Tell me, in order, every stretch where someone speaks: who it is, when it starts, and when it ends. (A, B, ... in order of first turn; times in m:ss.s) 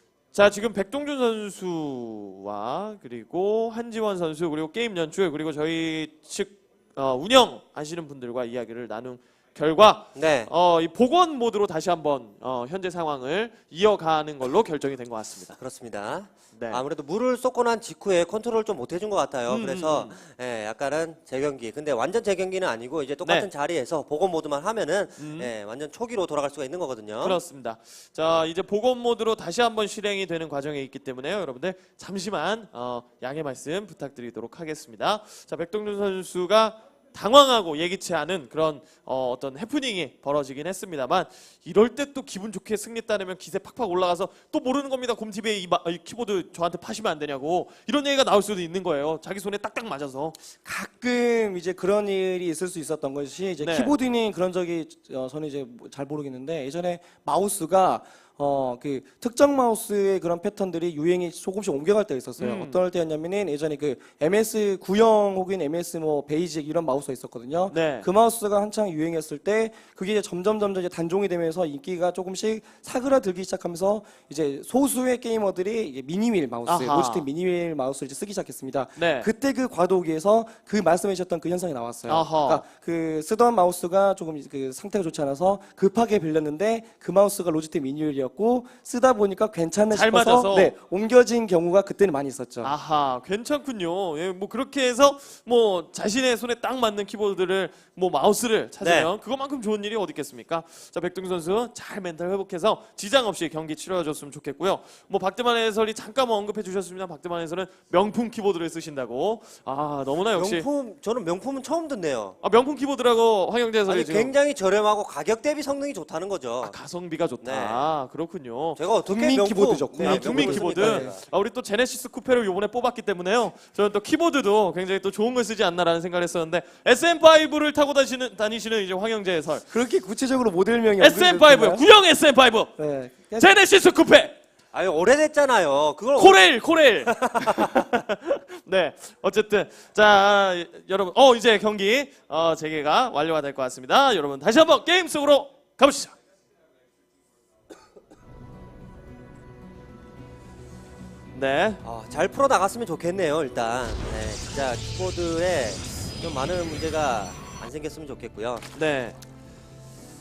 0:00.3-0:15.6 A
0:10.2-0:10.5 B
0:15.6-0:27.4 B
0:16.6-0:16.8 A
0:19.5-0:20.2 A
0:23.2-0:23.5 A
0:25.2-0:25.5 A
0:27.2-0:50.4 A
0:50.6-1:32.7 C
0:53.6-0:54.0 A
1:02.4-1:02.8 A
1:07.7-1:08.1 A
1:16.7-1:17.3 A
1:19.0-1:19.3 A
1:22.1-1:22.6 A
1:29.9-1:30.7 A
1:32.6-1:50.7 A
1:38.8-1:39.1 B
1:50.3-1:52.4 B
1:52.4-1:54.3 A
1:53.9-1:56.8 B
1:56.6-1:58.8 A
1:57.4-1:57.9 B
1:58.8-2:01.2 B
1:59.1-2:01.1 C
2:00.0-2:09.7 A
2:09.7-2:11.9 C
2:11.0-2:12.8 A
2:12.8-2:13.5 C
2:13.4-2:14.4 A
2:14.7-2:16.5 B
2:16.2-2:26.1 A
2:17.0-2:17.7 B
2:31.3-2:31.8 A
2:31.8-2:38.7 B
2:38.7-2:39.2 A